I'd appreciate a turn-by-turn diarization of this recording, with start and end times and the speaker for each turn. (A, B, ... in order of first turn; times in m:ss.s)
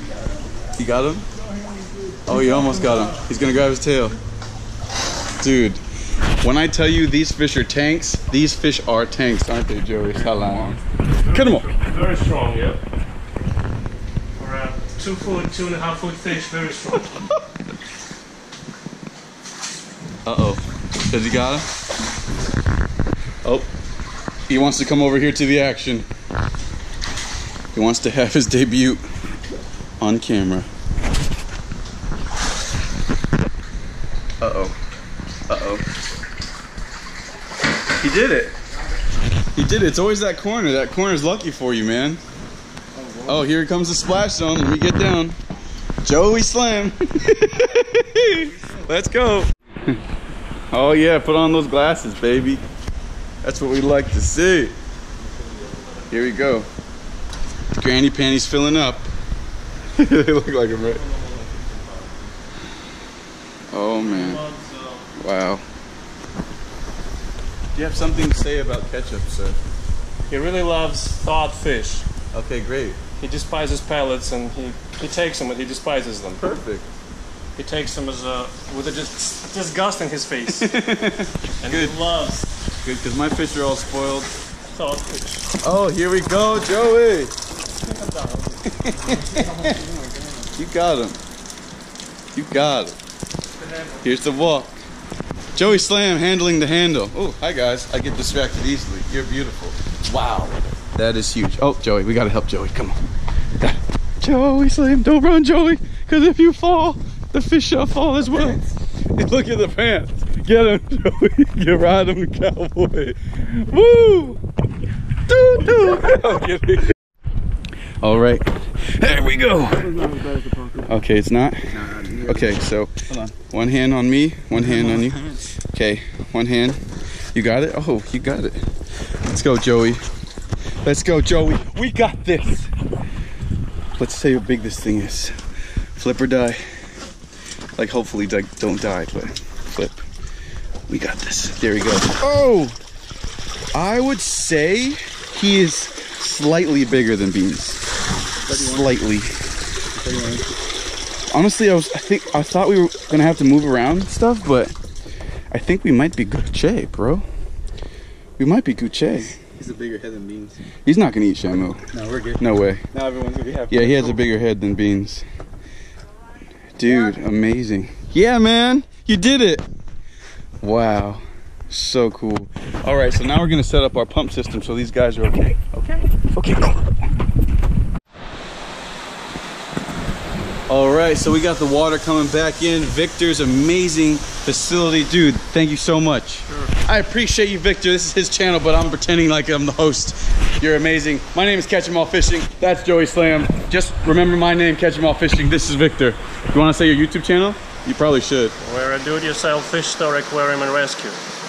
0:00.8-0:01.2 A
0:01.5-0:02.4 B
0:02.2-0:04.2 A
0:05.4-0:05.8 A
0:06.4-0:10.8 A
0:10.3-0:10.7 B
0:11.1-0:12.8 C
0:11.3-0:11.7 A
0:14.4-0:17.3 C
0:20.2-0:21.7 A
0:23.4-0:23.7 A
0:24.5-0:26.0 A
0:27.7-0:29.0 A
0:30.0-0:30.7 A
0:34.4-0:34.7 A
0:35.5-0:35.8 A
0:38.0-0:38.6 A
0:39.5-0:42.2 A
0:43.0-0:43.4 B
0:43.2-0:45.4 A
0:46.0-0:50.0 A
0:48.4-0:48.8 B
0:50.7-0:52.6 A
0:53.4-0:54.7 A
0:55.3-0:55.7 B
0:55.5-0:56.3 C
0:56.1-0:56.7 A
0:57.7-0:59.1 A
0:59.9-1:01.0 A
1:00.8-1:02.3 C
1:03.7-1:04.4 A
1:04.0-1:05.1 C
1:05.1-1:05.6 A
1:07.7-1:09.6 A
1:10.3-1:12.0 C
1:12.3-1:13.0 A
1:13.2-1:16.4 C
1:16.4-1:16.8 A
1:17.6-1:20.7 C
1:20.5-1:22.0 A
1:21.6-1:22.5 C
1:22.8-1:24.3 A
1:24.7-1:25.5 C
1:25.6-1:27.3 A
1:27.9-1:28.6 C
1:28.7-1:29.8 A
1:29.0-1:30.5 B
1:30.6-1:31.2 A
1:32.3-1:33.0 A
1:33.6-1:34.1 C
1:34.0-1:34.7 A
1:35.5-1:43.0 A
1:43.6-1:54.4 A
1:55.3-1:56.9 A
1:58.0-2:00.0 A
1:59.8-2:00.9 B
2:00.8-2:06.8 A
2:01.7-2:02.6 B
2:04.6-2:05.4 B
2:07.3-2:08.6 A
2:09.2-2:10.0 A
2:10.8-2:12.7 A
2:14.0-2:15.3 A
2:16.0-2:16.6 A
2:17.8-2:20.0 A
2:20.9-2:22.8 A
2:23.7-2:27.8 A
2:28.4-2:28.9 B
2:28.5-2:29.4 A
2:29.9-2:30.5 B
2:31.3-2:34.7 A
2:35.5-2:37.2 A
2:38.4-2:39.4 A
2:39.4-2:40.6 B
2:40.8-2:41.9 A
2:41.9-2:44.2 B
2:42.4-2:42.9 A
2:43.7-2:45.2 A
2:46.8-2:49.6 A
2:50.6-2:57.1 A
3:00.7-3:18.5 A
3:06.5-3:06.7 C
3:18.6-3:21.2 C